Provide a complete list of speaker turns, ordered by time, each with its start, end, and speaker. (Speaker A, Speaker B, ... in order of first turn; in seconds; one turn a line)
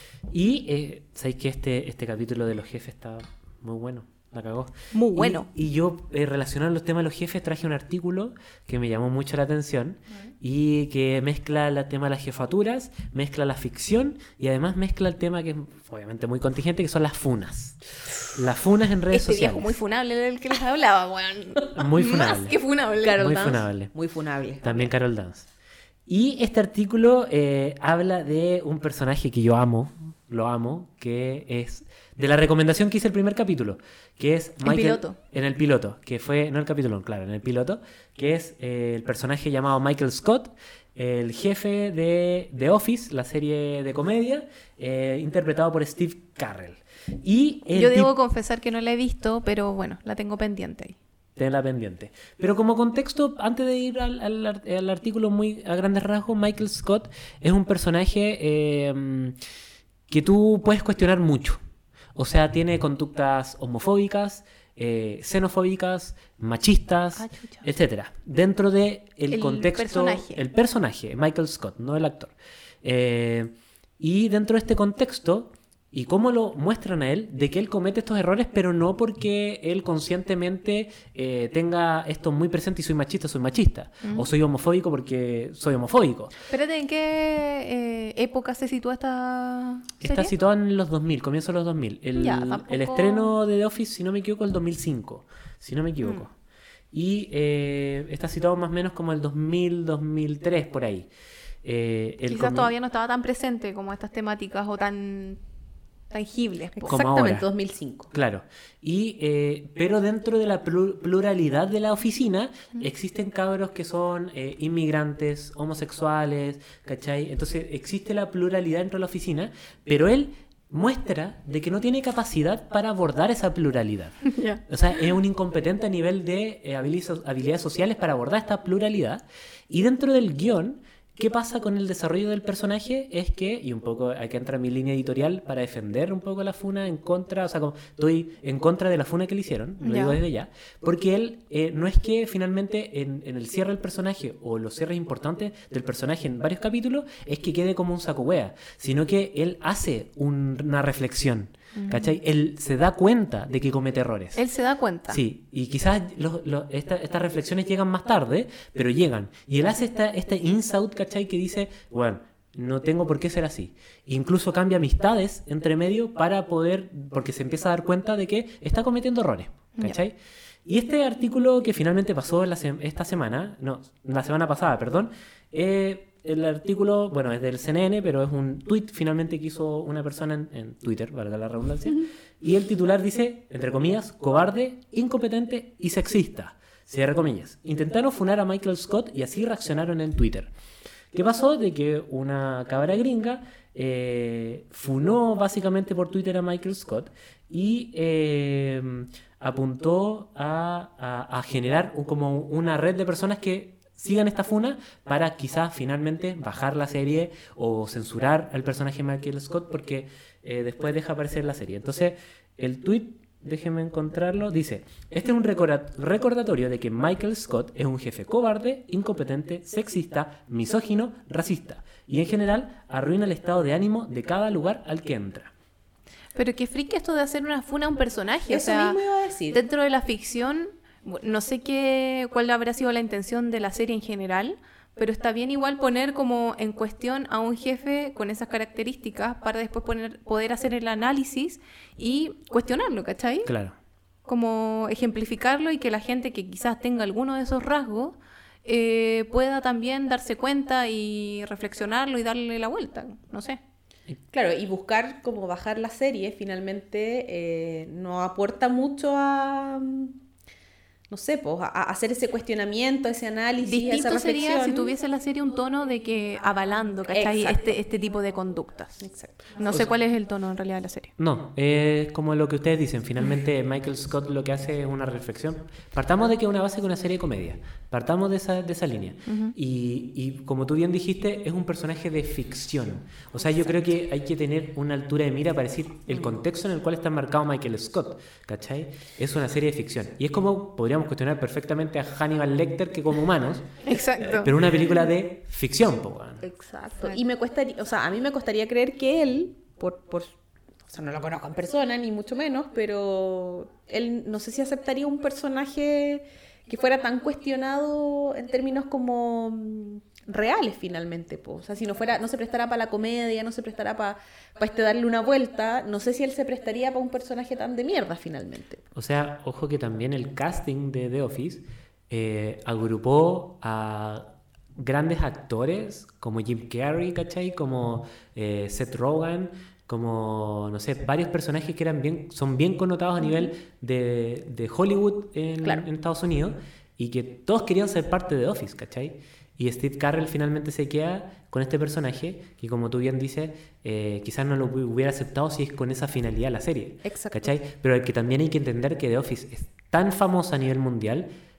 Speaker A: 0.3-17.8
Speaker B: 4.9-5.5
Speaker A: 18.3-19.8
Speaker B: 19.1-23.3
Speaker A: 21.7-22.6
Speaker C: 23.0-24.9
Speaker A: 23.1-23.9
Speaker A: 24.6-25.5
Speaker A: 26.1-48.1
Speaker B: 34.6-35.2
Speaker B: 47.7-51.0
Speaker A: 51.4-59.4
Speaker A: 60.1-61.6
Speaker A: 62.1-86.3
Speaker B: 67.2-67.7
Speaker B: 69.3-70.4
Speaker B: 84.0-84.3
Speaker B: 86.5-90.3
Speaker A: 90.0-96.3
Speaker B: 92.2-93.4
Speaker B: 96.0-96.3
Speaker A: 96.9-101.1
Speaker A: 101.6-102.7
Speaker B: 102.3-105.4
Speaker B: 106.1-106.8
Speaker C: 106.8-108.1
Speaker A: 106.9-107.5
Speaker A: 108.1-154.4
Speaker B: 124.2-124.6
Speaker B: 139.8-140.2
Speaker B: 151.7-152.2
Speaker B: 154.3-155.2
Speaker A: 155.1-190.5
Speaker A: 191.1-225.5
Speaker B: 226.3-229.0
Speaker C: 228.5-229.6
Speaker B: 229.5-243.5
Speaker A: 243.4-243.7
Speaker B: 244.3-253.6
Speaker C: 254.3-260.2
Speaker C: 261.1-264.9
Speaker B: 263.6-271.1
Speaker C: 267.1-267.7
Speaker C: 269.0-269.5
Speaker A: 271.2-293.7
Speaker B: 279.3-279.6
Speaker B: 293.8-294.5
Speaker A: 294.3-296.4
Speaker C: 296.4-300.3
Speaker C: 300.9-318.8
Speaker A: 318.9-351.3
Speaker C: 347.0-347.6